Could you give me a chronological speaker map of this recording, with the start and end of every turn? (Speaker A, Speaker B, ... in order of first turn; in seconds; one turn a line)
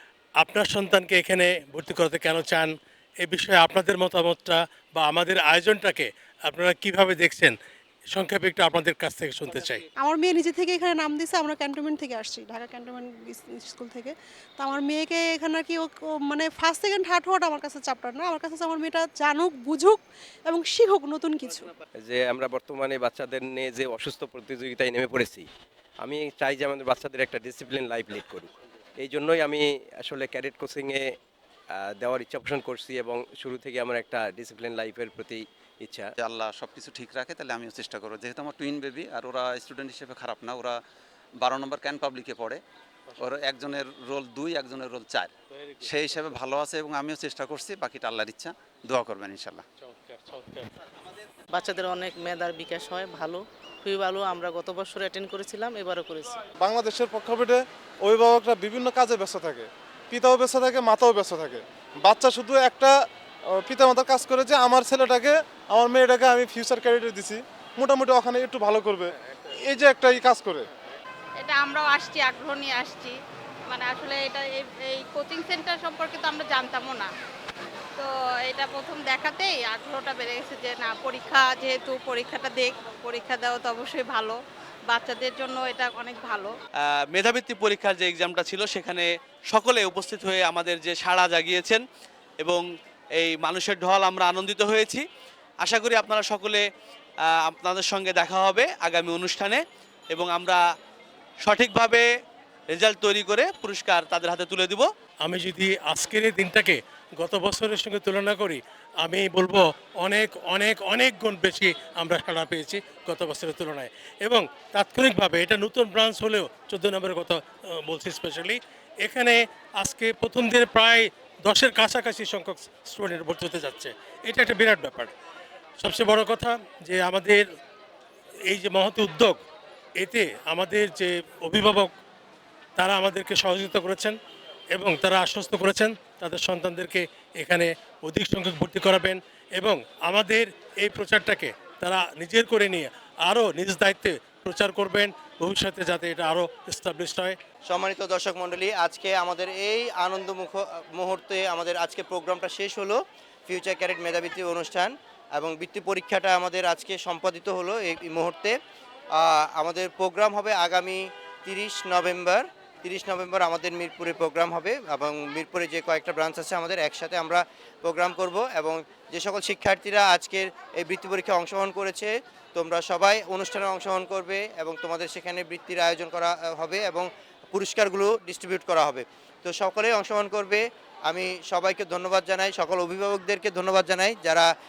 Speaker A: 0.4-7.5
Speaker A: 8.1-9.8
Speaker B: 10.0-21.7
Speaker C: 22.2-25.4
Speaker C: 26.1-28.4
Speaker C: 29.2-29.6
Speaker C: 30.1-30.7
Speaker C: 32.1-35.3
Speaker D: 36.2-40.8
Speaker D: 41.4-42.6
Speaker D: 43.1-49.7
Speaker A: 50.1-50.5
Speaker E: 51.7-56.2
Speaker F: 56.6-62.9
Speaker F: 63.6-69.1
Speaker F: 69.7-70.7
Speaker G: 71.4-73.2
Speaker G: 73.7-77.1
Speaker G: 78.0-86.5
Speaker H: 86.8-91.8
Speaker H: 93.2-95.0
Speaker H: 95.6-96.7
Speaker H: 97.4-100.6
Speaker H: 101.4-102.1
Speaker H: 102.7-104.9
Speaker A: 105.2-125.1
Speaker A: 125.8-127.4
Speaker A: 128.5-129.4
Speaker A: 130.0-131.9
Speaker A: 132.8-134.2
Speaker A: 134.7-147.4
Speaker I: 147.7-158.6
Speaker I: 159.2-184.5